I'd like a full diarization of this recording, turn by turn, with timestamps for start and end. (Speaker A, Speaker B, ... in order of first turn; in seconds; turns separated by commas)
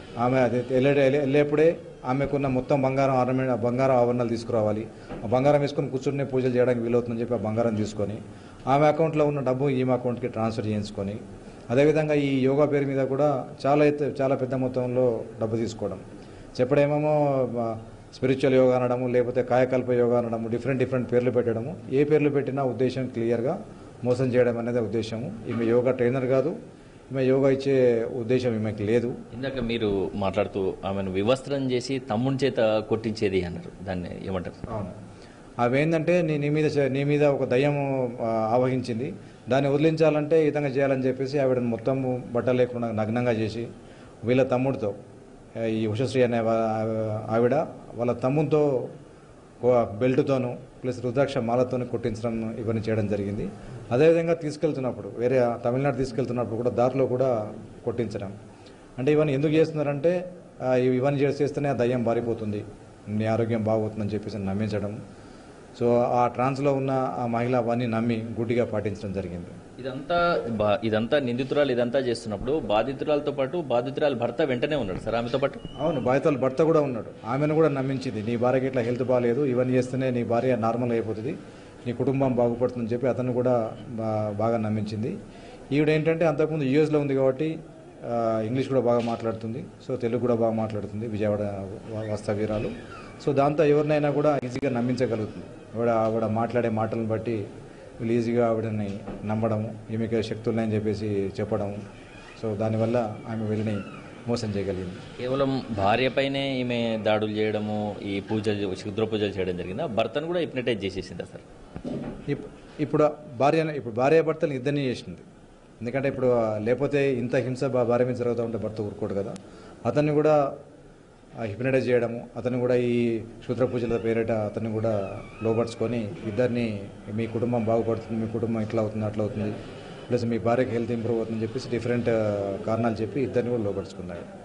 Speaker A: 0.2-16.0, Speaker A: 16.6-26.6, Speaker A: 27.1-29.1, Speaker B: 29.3-34.6, Speaker A: 34.7-35.0, Speaker A: 35.6-43.7, Speaker A: 44.2-45.0, Speaker A: 45.6-48.9, Speaker A: 49.6-58.4, Speaker A: 59.0-65.0, Speaker A: 65.8-69.5, Speaker B: 69.8-75.6, Speaker A: 75.8-85.2, Speaker A: 85.7-97.4, Speaker A: 98.0-101.8, Speaker A: 102.4-105.0, Speaker B: 105.2-111.4, Speaker A: 112.3-115.2, Speaker A: 115.8-119.3, Speaker A: 119.9-120.4, Speaker A: 121.4-129.6, Speaker A: 130.1-134.3